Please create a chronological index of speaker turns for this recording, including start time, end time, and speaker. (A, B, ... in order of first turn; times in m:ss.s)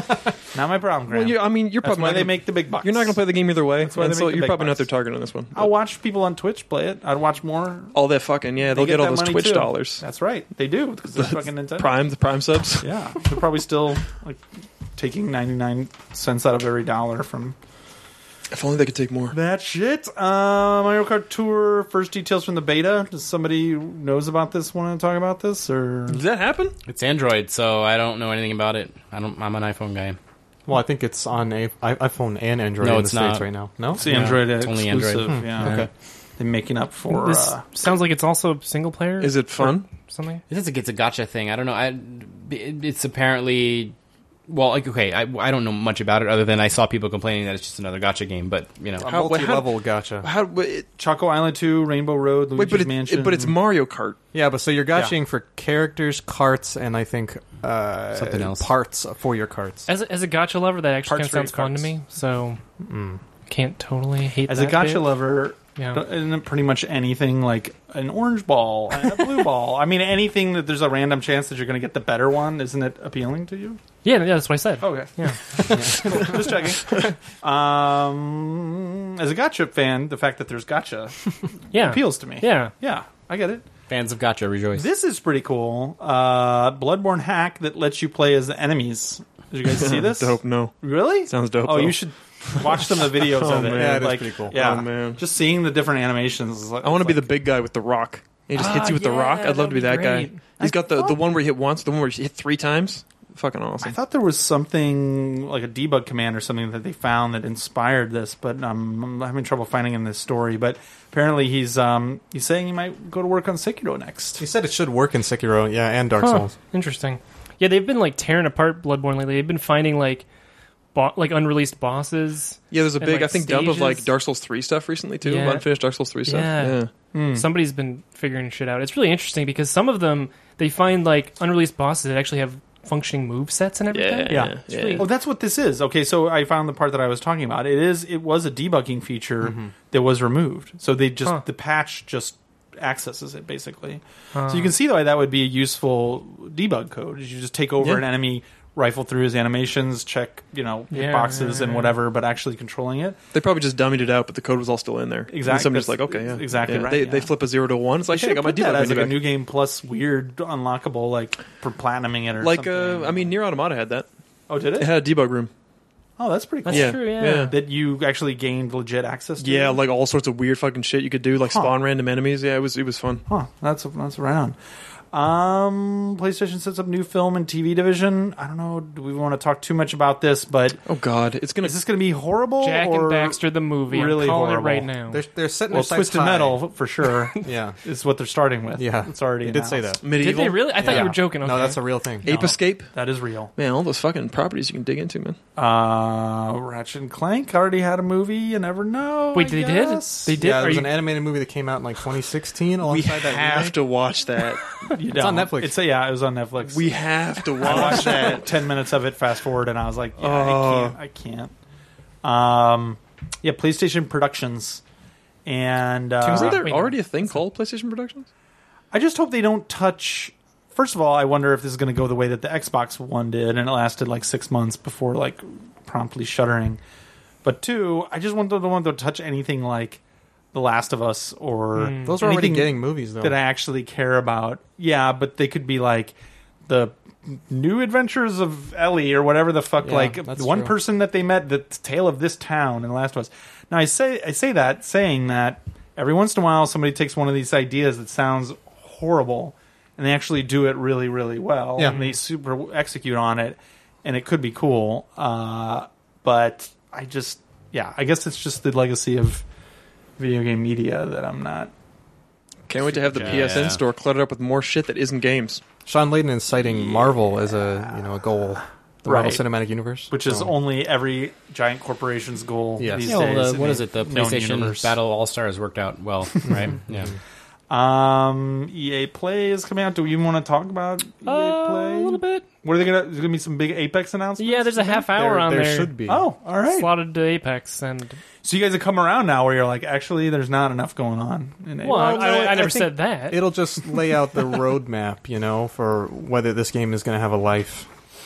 0:00.5-0:04.9 A
0:01.1-0:05.7 B
0:05.5-0:08.0 A
0:07.9-0:10.0 B
0:08.7-0:12.0 A
0:11.2-0:12.9 B
0:12.8-0:14.4 A
0:15.0-0:17.6 A
0:18.5-0:19.3 B
0:19.3-0:26.2 A
0:26.1-0:26.7 B
0:26.9-0:30.2 C
0:30.7-0:34.1 D
0:32.8-0:35.8 C
0:33.9-0:35.8 A
0:35.3-0:35.9 D
0:36.4-0:37.6 A
0:37.1-0:40.4 E
0:39.2-0:39.9 B
0:40.5-0:43.9 C
0:44.5-0:49.1 C
0:49.0-0:50.3 D
0:49.0-0:50.9 B
0:51.0-0:53.5 A
0:52.5-0:54.2 B
0:54.3-0:59.9 D
0:58.1-0:58.7 C
0:59.9-1:02.6 E
1:01.0-1:01.9 A
1:02.9-1:03.2 D
1:03.5-1:05.1 E
1:04.5-1:13.8 A
1:05.8-1:06.0 E
1:14.0-1:16.3 E
1:14.8-1:23.6 A
1:15.7-1:16.2 D
1:21.7-1:22.7 E
1:23.9-1:24.9 C
1:24.7-1:37.4 A
1:29.6-1:35.2 B
1:33.7-1:34.8 D
1:36.8-1:43.9 B
1:38.5-1:40.4 E
1:40.6-1:41.2 A
1:43.8-1:54.4 A
1:54.4-1:56.5 D
1:56.2-2:00.3 E
2:00.9-2:04.1 E
2:02.7-2:06.9 B
2:05.2-2:15.1 E
2:07.1-2:07.5 A
2:13.9-2:15.1 B
2:14.3-2:33.2 A
2:19.4-2:19.7 D
2:24.3-2:24.7 E
2:27.8-2:28.0 B
2:30.9-2:32.0 E
2:33.3-2:39.2 B
2:35.3-2:37.3 A
2:38.1-2:43.4 A
2:42.4-2:44.1 B
2:44.5-2:44.9 A
2:44.8-2:45.5 B
2:46.2-2:49.8 A
2:46.6-2:47.5 E
2:46.7-2:47.5 B
2:49.4-2:53.2 B
2:53.3-2:54.6 A
2:55.1-3:00.8 A
3:00.8-3:01.8 B
3:01.6-3:04.9 A
3:02.6-3:05.2 E
3:05.1-3:06.6 D
3:05.7-3:10.0 A
3:07.4-3:07.8 D
3:08.8-3:10.0 D
3:10.0-3:11.0 B
3:10.1-3:11.8 E
3:10.8-3:12.3 D
3:12.2-3:12.9 B
3:12.2-3:13.5 A
3:13.5-3:15.4 B
3:15.6-3:20.6 A
3:19.3-3:21.0 E
3:20.3-3:23.8 D
3:22.8-3:24.6 B
3:24.9-3:31.5 A
3:25.1-3:25.8 D
3:26.6-3:28.4 B
3:27.6-3:28.4 D
3:30.2-3:31.0 B
3:32.2-3:34.8 A
3:35.4-3:36.7 A
3:36.2-3:38.3 B
3:36.4-3:37.0 E
3:38.9-3:46.8 A
3:47.4-3:50.0 A
3:50.5-3:56.1 A
3:51.8-3:52.2 E
3:51.9-3:53.4 D
3:56.6-4:19.4 A
3:59.8-4:00.8 D
4:11.8-4:12.1 D
4:20.2-4:21.7 A
4:22.7-4:25.6 B
4:23.1-4:23.8 C
4:25.8-4:30.5 D
4:26.6-4:27.2 A
4:29.0-4:29.4 A
4:30.1-4:34.9 A
4:32.8-4:33.4 D
4:33.0-4:37.1 C
4:36.5-4:37.2 D
4:37.7-4:45.1 A
4:41.2-4:42.4 E
4:44.4-4:48.2 E
4:45.0-4:46.3 D
4:46.1-4:47.0 A
4:48.4-4:52.9 A
4:51.8-4:53.5 E
4:51.8-4:57.9 D